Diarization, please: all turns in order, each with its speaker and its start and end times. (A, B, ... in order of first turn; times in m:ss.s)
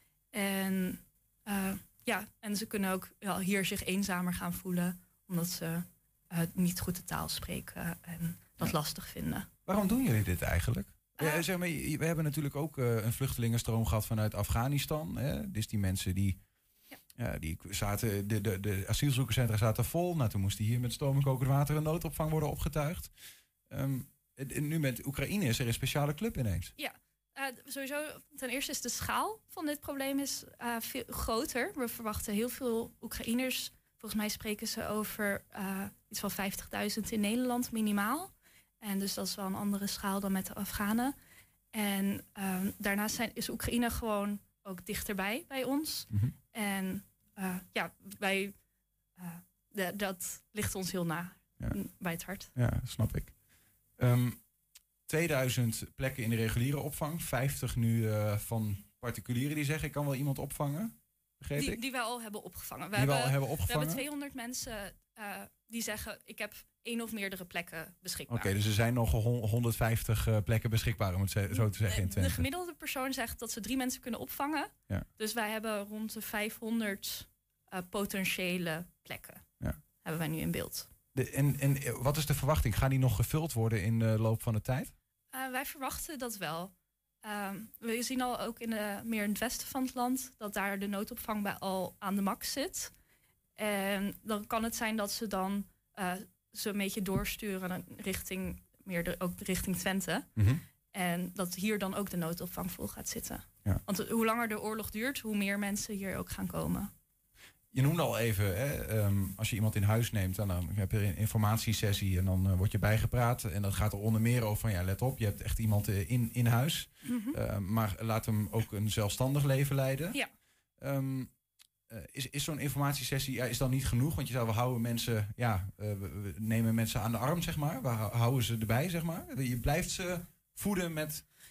0:00.3-0:09.5 A
0:09.6-0:16.4 B
0:11.2-0:11.4 A
0:17.2-0:23.1 B
0:23.7-0:26.7 B
0:26.8-0:41.1 A
0:41.7-0:48.5 A
0:49.2-0:52.5 A
0:52.5-0:53.3 B
0:54.0-0:54.4 B
0:55.1-1:01.8 B
1:01.5-1:08.5 A
1:02.9-1:04.0 B
1:08.3-1:12.5 B
1:11.5-1:19.4 A
1:20.0-1:20.9 A
1:21.1-1:24.9 B
1:25.3-1:26.7 A
1:27.2-1:32.9 A
1:33.6-1:40.3 A
1:40.4-1:40.6 B
1:40.9-1:46.9 A
1:47.7-2:00.2 B
1:57.0-1:57.4 A
2:00.8-2:01.3 B
2:01.9-2:11.2 B